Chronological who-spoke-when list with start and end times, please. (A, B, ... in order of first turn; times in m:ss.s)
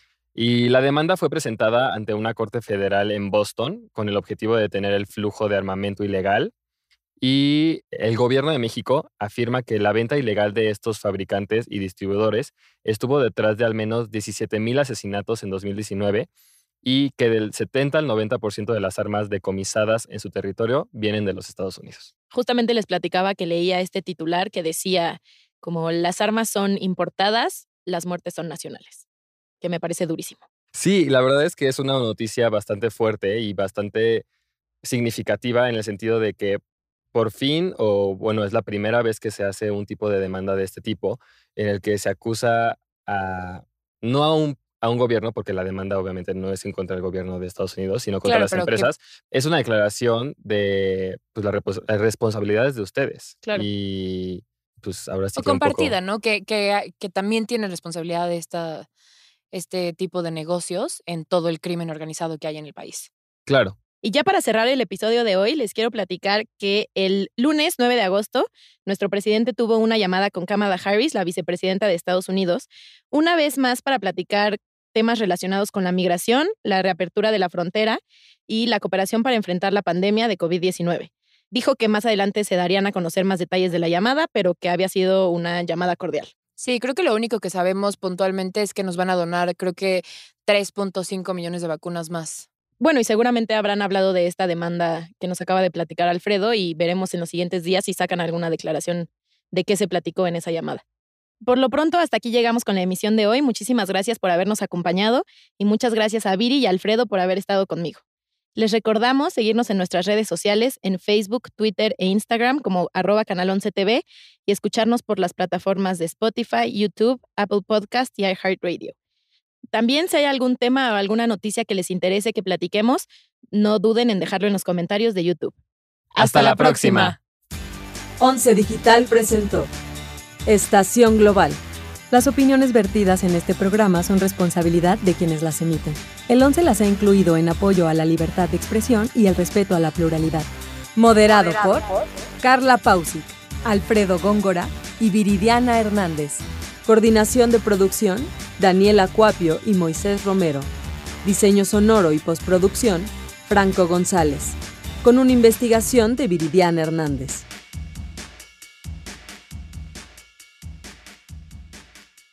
0:00.4-0:06.5 A
0:07.2-0:16.3 A
0:16.8-0:22.1 A
0:22.3-0:29.0 B
0:29.6-0:30.4 B
0:30.8-0:34.2 A
0:34.8-0:36.6 A
0:37.1-0:56.0 A
0:48.2-0:48.9 C
0:55.4-0:58.9 C
0:59.5-1:03.1 C
1:03.5-1:03.8 A
1:04.0-1:26.3 B
1:26.6-1:32.5 C
1:32.8-1:40.8 B
1:41.4-1:48.0 B
1:48.6-1:59.0 B
1:59.7-2:05.6 B
2:06.1-2:07.2 B
2:06.2-2:07.2 A
2:08.2-2:09.7 D
2:10.5-2:30.7 D
2:31.2-2:37.5 D